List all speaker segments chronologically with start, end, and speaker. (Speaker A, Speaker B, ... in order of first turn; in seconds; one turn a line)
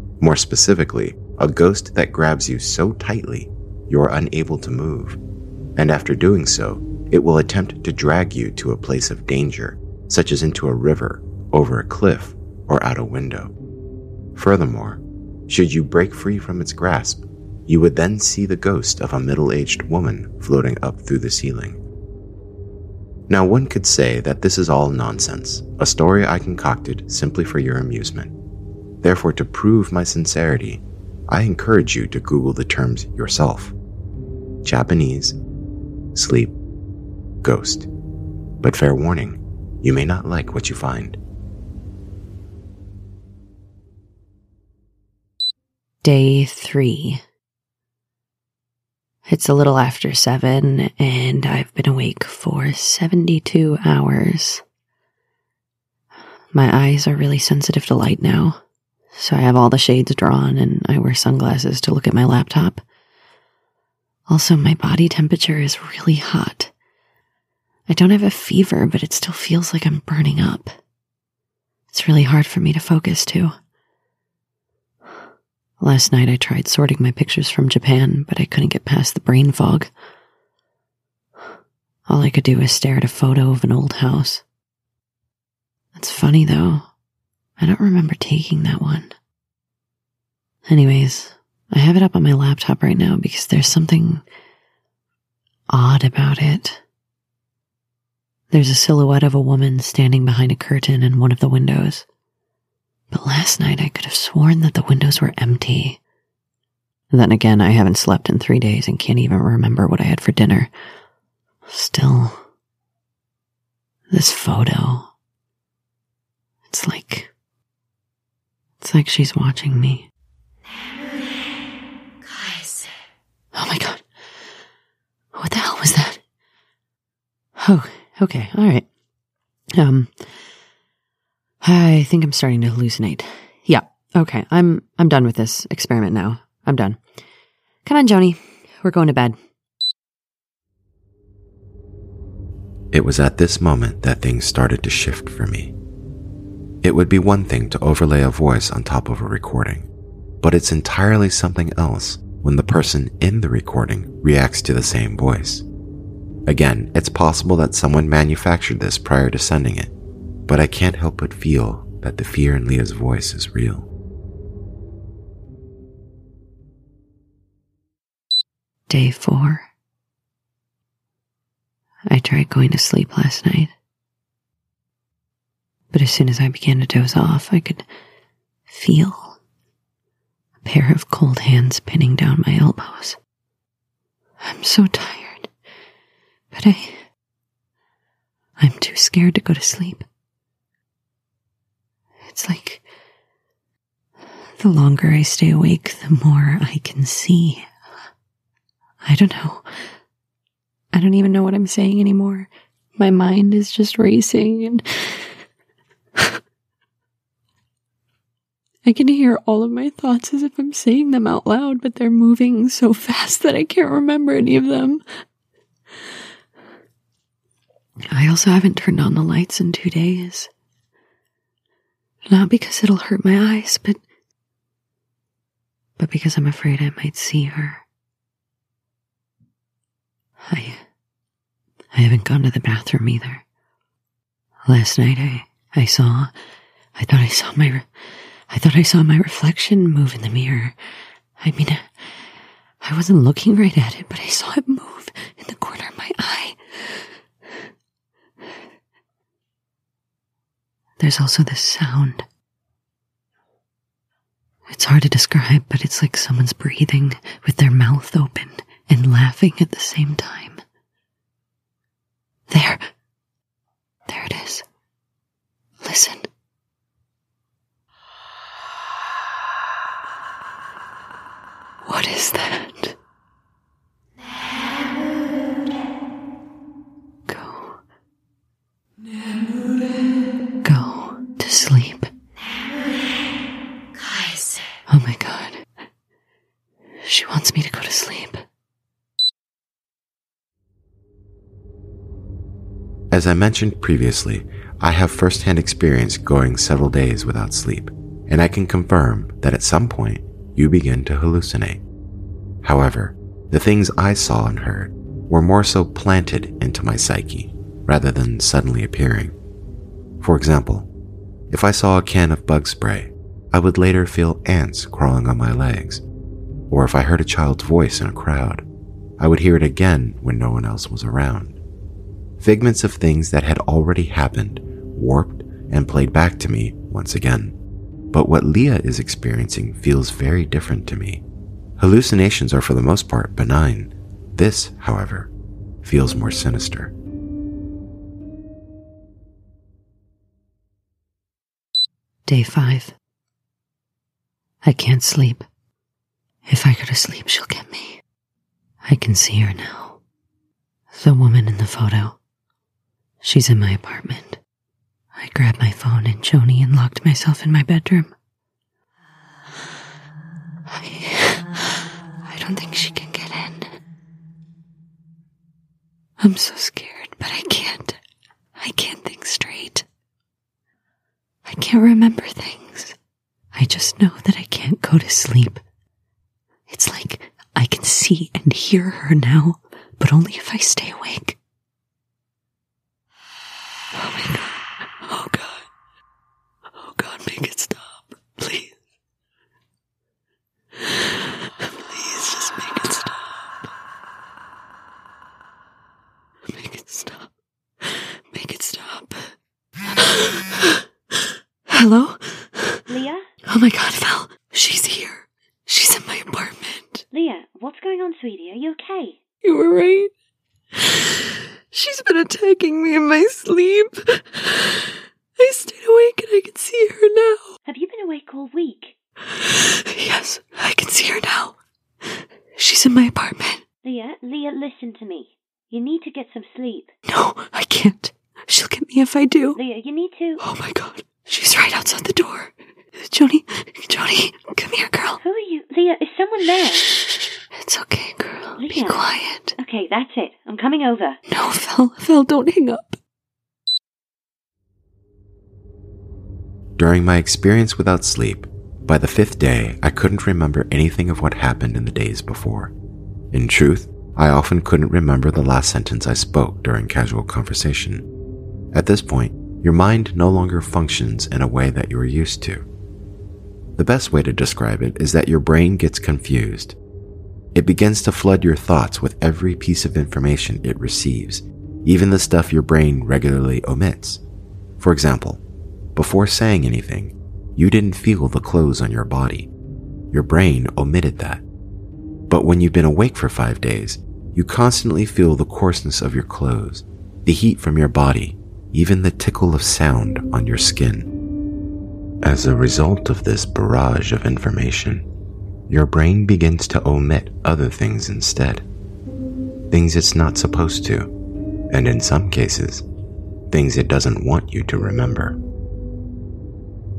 Speaker A: 0.2-5.2
Speaker A: 5.8-13.5
Speaker A: 14.3-21.8
Speaker A: 23.3-28.3
Speaker A: 29.0-33.7
Speaker A: 34.6-35.4
Speaker A: 36.1-36.5
Speaker A: 37.4-37.9
Speaker A: 38.6-41.2
Speaker B: 46.0-47.2
Speaker B: 49.3-54.6
Speaker B: 56.5-58.6
Speaker B: 59.1-62.8
Speaker B: 64.3-66.7
Speaker B: 67.9-70.7
Speaker B: 71.9-73.5
Speaker B: 75.8-79.9
Speaker B: 82.1-84.4
Speaker B: 85.9-86.9
Speaker B: 87.6-89.1
Speaker B: 90.7-94.2
Speaker B: 95.7-96.8
Speaker B: 98.5-102.0
Speaker B: 103.1-106.0
Speaker B: 107.1-110.7
Speaker B: 111.7-112.4
Speaker B: 114.1-115.1
Speaker B: 116.7-117.3
Speaker B: 118.8-120.0
Speaker B: 123.5-124.0
Speaker B: 125.3-126.2
Speaker B: 127.6-128.8
Speaker B: 129.8-130.1
Speaker B: 131.6-137.0
Speaker B: 137.8-139.3
Speaker A: 142.9-145.7
Speaker A: 146.8-149.9
Speaker A: 150.4-155.7
Speaker A: 156.5-159.9
Speaker A: 160.5-163.9
Speaker B: 168.9-169.7
Speaker B: 172.1-173.7
Speaker B: 175.9-177.8
Speaker B: 178.7-179.4
Speaker B: 180.6-183.2
Speaker B: 184.4-185.5
Speaker B: 186.5-187.0
Speaker B: 188.6-190.1
Speaker B: 192.3-192.8
Speaker B: 194.6-197.7
Speaker B: 199.0-199.6
Speaker B: 200.9-205.2
Speaker B: 208.8-215.0
Speaker B: 218.1-220.5
Speaker B: 222.3-224.0
Speaker B: 226.0-227.8
Speaker B: 230.5-230.8
Speaker B: 231.9-233.4
Speaker B: 234.7-236.3
Speaker B: 236.9-237.9
Speaker B: 238.5-240.8
Speaker B: 241.4-242.1
Speaker B: 242.8-247.0
Speaker B: 251.0-252.2
Speaker B: 254.7-260.6
Speaker B: 262.5-262.9
Speaker B: 264.1-264.6
Speaker B: 265.8-266.3
Speaker B: 271.8-272.9
Speaker B: 277.3-277.8
Speaker B: 280.6-282.1
Speaker B: 284.9-285.6
Speaker B: 287.0-288.4
Speaker A: 293.1-301.8
Speaker A: 302.6-309.3
Speaker A: 310.2-310.9
Speaker A: 311.5-316.0
Speaker A: 316.7-318.6
Speaker A: 319.2-321.6
Speaker A: 322.4-327.6
Speaker A: 328.1-331.2
Speaker A: 331.8-335.3
Speaker A: 335.8-336.9
Speaker B: 342.3-342.9
Speaker B: 344.6-345.5
Speaker B: 346.4-348.0
Speaker B: 348.8-350.0
Speaker B: 350.9-352.1
Speaker B: 353.2-354.4
Speaker B: 355.1-358.1
Speaker B: 360.7-363.7
Speaker B: 366.2-368.0
Speaker B: 368.6-369.9
Speaker B: 371.4-372.9
Speaker B: 373.5-375.6
Speaker B: 376.7-381.4
Speaker B: 383.9-385.7
Speaker B: 386.8-388.7
Speaker B: 391.6-393.3
Speaker B: 396.5-397.3
Speaker B: 397.8-399.3
Speaker B: 400.0-400.8
Speaker B: 401.7-402.8
Speaker C: 402.9-403.3
Speaker B: 403.5-407.0
Speaker C: 407.1-409.2
Speaker B: 409.4-410.1
Speaker B: 410.8-411.2
Speaker B: 411.7-417.5
Speaker C: 417.6-418.9
Speaker B: 419.3-421.6
Speaker B: 422.6-423.6
Speaker C: 423.8-426.9
Speaker B: 427.1-429.6
Speaker C: 429.6-430.4
Speaker B: 430.4-435.2
Speaker C: 435.2-436.9
Speaker B: 437.5-439.6
Speaker C: 438.6-441.2
Speaker B: 441.3-443.0
Speaker A: 446.8-452.7
Speaker A: 453.3-458.1
Speaker A: 458.7-462.6
Speaker A: 463.8-466.8
Speaker A: 467.5-474.2
Speaker A: 474.8-475.4
Speaker A: 475.9-479.5
Speaker A: 480.1-481.4
Speaker A: 482.3-491.1
Speaker A: 492.2-495.1
Speaker A: 495.7-498.6
Speaker A: 499.7-501.1
Speaker A: 501.7-502.8
Speaker A: 503.5-505.4